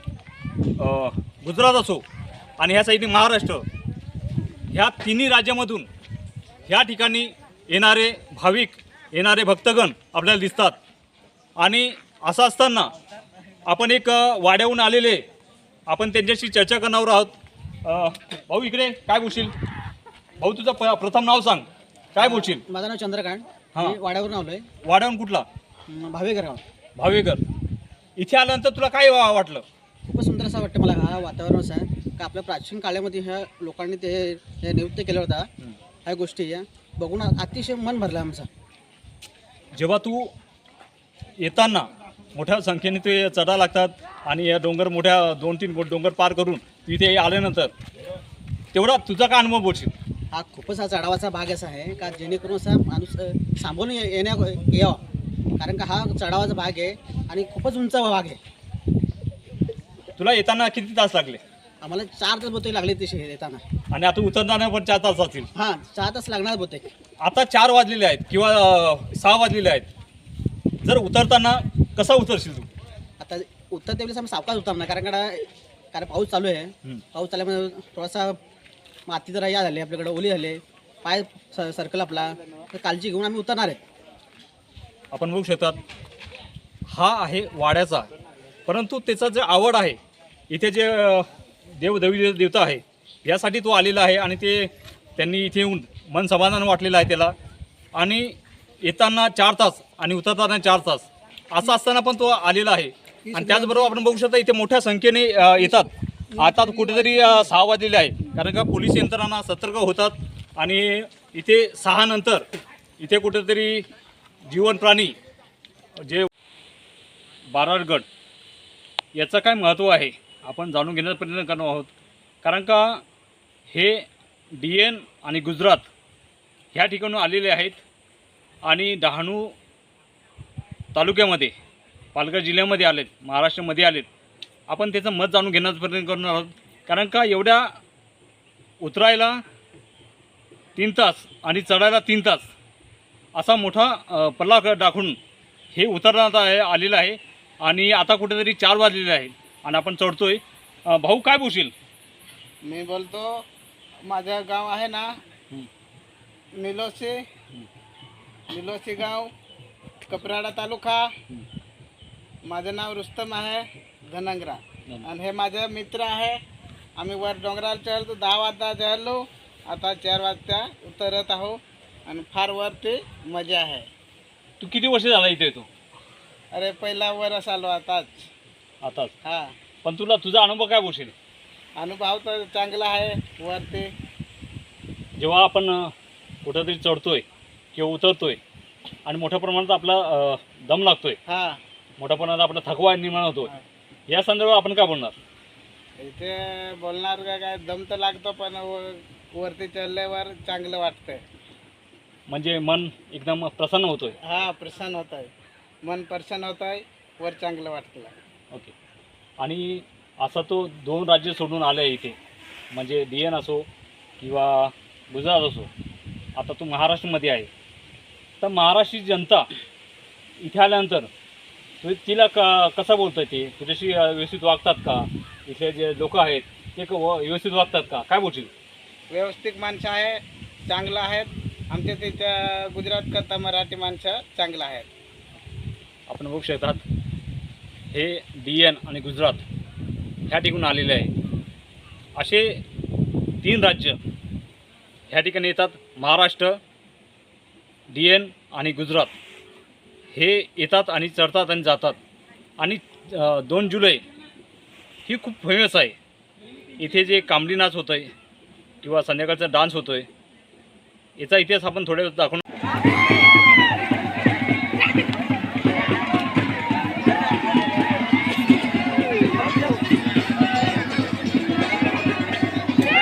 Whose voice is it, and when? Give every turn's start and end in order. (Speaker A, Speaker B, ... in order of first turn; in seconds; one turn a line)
Speaker A: 0.8-2.0
Speaker A: 2.6-3.6
Speaker A: 4.7-5.9
Speaker A: 6.7-10.8
Speaker A: 11.6-12.9
Speaker A: 13.7-15.2
Speaker A: 15.9-17.3
Speaker A: 17.8-19.6
Speaker A: 20.4-22.6
Speaker B: 22.2-24.6
Speaker A: 24.8-25.4
Speaker B: 25.9-26.6
Speaker A: 27.0-27.4
Speaker A: 28.2-29.6
Speaker B: 30.1-35.5
Speaker B: 36.0-38.5
Speaker A: 39.7-40.3
Speaker A: 41.4-47.7
Speaker A: 48.7-49.9
Speaker B: 50.3-55.0
Speaker B: 55.6-58.4
Speaker A: 60.2-61.4
Speaker B: 61.8-63.6
Speaker A: 63.9-65.5
Speaker B: 65.5-66.9
Speaker A: 67.2-69.9
Speaker A: 70.8-72.7
Speaker B: 73.2-78.4
Speaker B: 79.1-83.8
Speaker A: 85.1-85.8
Speaker A: 86.9-88.1
Speaker A: 88.7-90.0
Speaker A: 90.5-97.3
Speaker A: 97.9-112.5
Speaker B: 103.2-103.9
Speaker A: 113.0-113.8
Speaker A: 114.5-115.1
Speaker A: 116.0-116.3
Speaker A: 117.5-118.0
Speaker A: 119.2-121.9
Speaker A: 122.4-123.0
Speaker A: 123.7-125.9
Speaker A: 126.7-127.8
Speaker A: 128.6-129.5
Speaker A: 130.9-131.5
Speaker A: 132.1-134.1
Speaker A: 134.7-137.7
Speaker A: 138.8-139.4
Speaker A: 140.8-142.5
Speaker A: 143.3-145.2
Speaker A: 145.7-151.7
Speaker C: 152.6-153.4
Speaker C: 154.0-155.1
Speaker C: 156.6-157.2
Speaker C: 158.5-159.3
Speaker C: 160.1-161.1
Speaker C: 162.4-166.4
Speaker C: 167.0-173.9
Speaker A: 174.6-175.7
Speaker C: 176.5-178.3
Speaker A: 178.8-179.1
Speaker C: 179.2-179.5
Speaker A: 179.8-181.1
Speaker C: 181.8-183.9
Speaker A: 185.2-185.9
Speaker A: 186.4-188.4
Speaker A: 189.0-191.2
Speaker C: 191.3-191.6
Speaker A: 192.0-193.5
Speaker A: 194.1-195.2
Speaker C: 196.0-201.2
Speaker A: 202.3-204.2
Speaker C: 204.2-205.3
Speaker C: 205.8-208.1
Speaker A: 209.4-212.2
Speaker A: 212.7-213.7
Speaker A: 214.2-215.7
Speaker A: 216.3-217.5
Speaker A: 218.4-219.5
Speaker A: 220.4-221.1
Speaker A: 221.8-228.5
Speaker C: 229.1-234.9
Speaker A: 236.1-236.8
Speaker A: 237.9-239.4
Speaker A: 240.3-241.1
Speaker A: 242.2-242.6
Speaker A: 243.4-244.0
Speaker A: 245.1-246.6
Speaker A: 247.9-249.2
Speaker A: 250.1-252.0
Speaker A: 252.6-254.0
Speaker A: 255.0-256.0
Speaker A: 256.8-258.1
Speaker A: 258.8-260.1
Speaker A: 261.2-262.4